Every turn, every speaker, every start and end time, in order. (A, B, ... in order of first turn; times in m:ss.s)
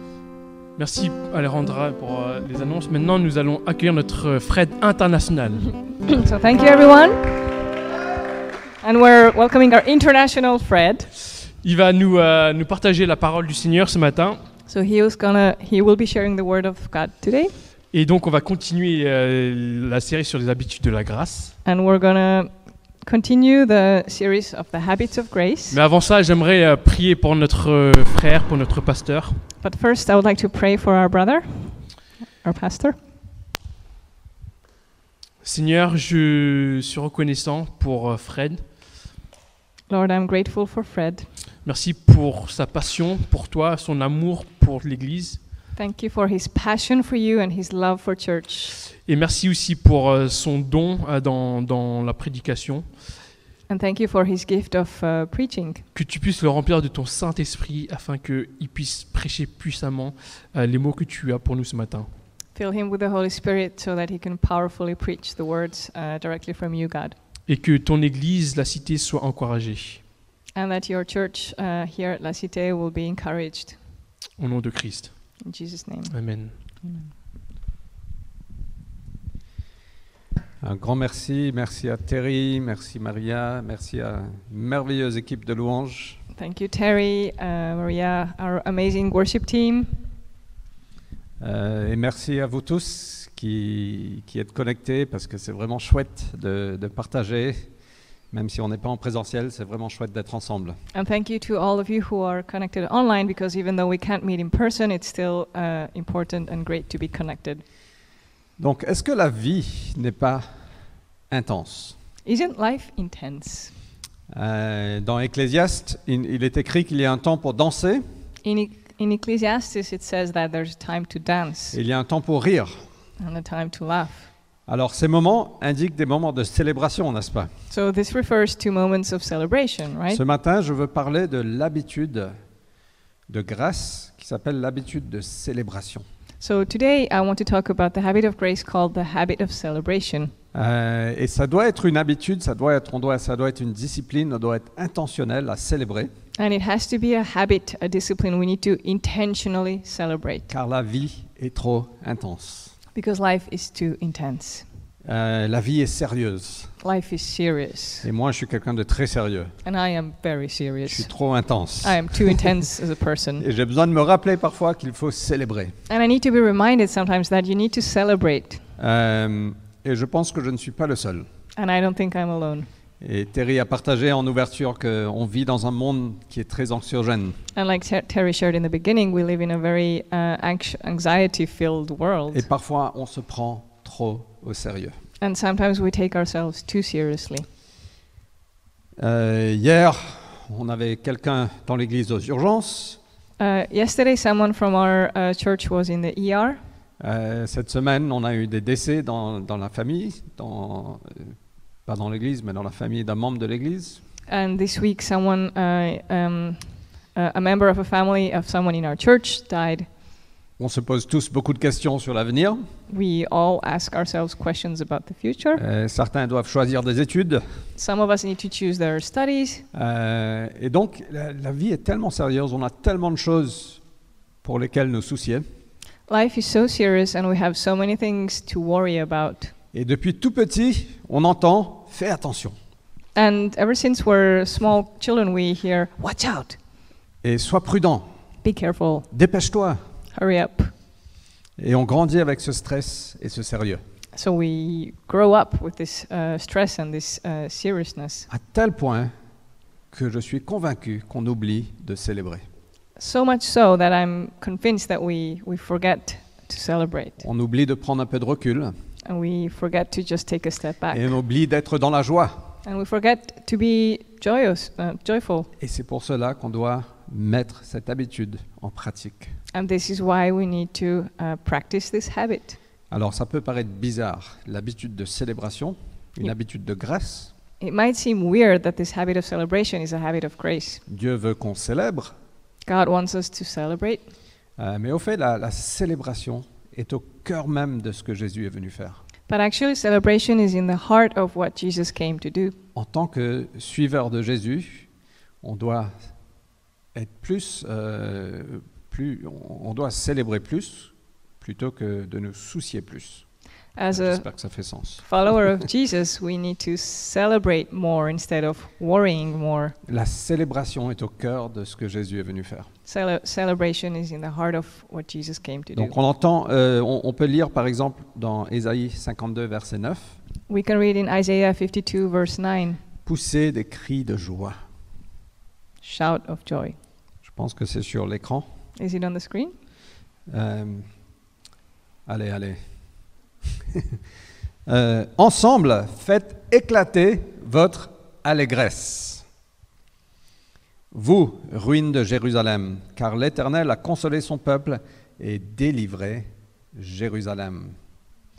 0:00.8-0:05.7 A
0:06.0-0:07.5 B
0:08.8-0:11.1 B
0:11.6-0:14.4 A
0:14.7-0:17.5 B
0:17.9-0:21.6 A
0:21.6-0:22.5 B
0:23.0-0:25.8 B
0:25.7-0:29.4 A
0:29.6-0:31.9 B
0:32.4-0:33.0 B
0:35.4-0:38.6 A
0:39.9-0:41.3 B
0:41.6-0:45.4 A
0:45.8-0:48.8 B
0:49.0-0:52.9 A
0:53.7-0:55.8 B
0:56.0-1:02.1 A
1:02.6-1:07.2 B
1:07.5-1:10.0 A
1:10.6-1:13.8 B
1:14.4-1:15.1 A
1:15.4-1:16.1 B
1:16.1-1:16.6 A
1:20.6-1:26.2 C
1:26.4-1:30.0 B
1:31.4-1:37.7 C
1:38.3-1:40.8 C
1:40.9-1:47.6 B
1:48.6-1:50.4 C
1:51.3-1:52.0 C
1:52.2-1:53.7 B
1:54.3-1:58.0 C
1:58.4-2:01.8 B
2:01.7-2:02.8 C
2:03.2-2:04.3 B
2:04.7-2:07.5 C
2:07.7-2:10.2 B
2:10.1-2:12.3 C
2:13.3-2:16.0 C
2:16.4-2:20.3 B
2:20.5-2:26.1 C
2:26.4-2:30.5 B
2:30.5-2:32.7 C
2:32.9-2:34.6 B
2:35.0-2:36.7 C
2:36.8-2:38.1 B
2:38.0-2:39.5 C
2:39.6-2:41.1 B
2:40.8-2:42.5 C
2:41.8-2:43.4 B
2:43.4-2:45.7 C
2:45.9-2:48.6 B
2:48.8-2:51.3 C
2:51.6-2:52.7 B
2:53.0-2:57.4 C
2:57.5-3:02.4 B
3:02.3-3:05.0 C
3:05.2-3:07.5 B
3:09.0-3:13.0 C
3:13.4-3:16.6 B
3:17.0-3:21.3 C
3:21.8-3:24.0 C
3:24.3-3:29.9 B
3:30.6-3:32.6 C
3:32.9-3:35.6 B
3:35.6-3:37.4 C
3:37.8-3:39.6 B
3:39.7-3:43.8 C
3:44.4-3:45.4 C
3:46.1-3:49.5 B
3:49.7-3:52.6 C
3:53.1-3:56.6 B
3:57.2-3:58.1 C
3:58.4-3:59.1 B
3:59.1-3:59.8 C
4:00.1-4:00.7 B
4:01.6-4:03.8 C
4:04.1-4:08.3 B
4:08.3-4:09.1 C
4:09.9-4:12.4 C
4:13.0-4:17.2 B
4:17.2-4:18.7 C
4:19.0-4:21.1 B
4:20.9-4:22.6 C
4:22.6-4:25.5 B
4:25.6-4:29.3 C
4:29.5-4:32.6 B
4:32.9-4:37.3 C
4:37.6-4:40.8 B
4:40.9-4:42.1 C
4:42.6-4:44.1 B
4:44.6-4:49.0 C
4:49.3-4:52.6 B
4:52.8-4:54.9 C
4:55.4-4:55.9 C
4:56.9-5:03.2 C
5:03.8-5:04.2 B
5:03.9-5:05.0 C
5:05.0-5:09.8 B
5:09.8-5:12.7 C
5:12.8-5:15.9 B
5:15.8-5:20.2 C
5:20.5-5:22.8 B
5:23.1-5:24.6 C
5:25.8-5:26.8 B
5:27.2-5:28.5 C
5:28.8-5:29.5 B
5:30.3-5:30.9 C
5:32.1-5:32.6 C
5:33.7-5:34.0 C
5:34.7-5:39.2 C
5:40.9-5:47.8 C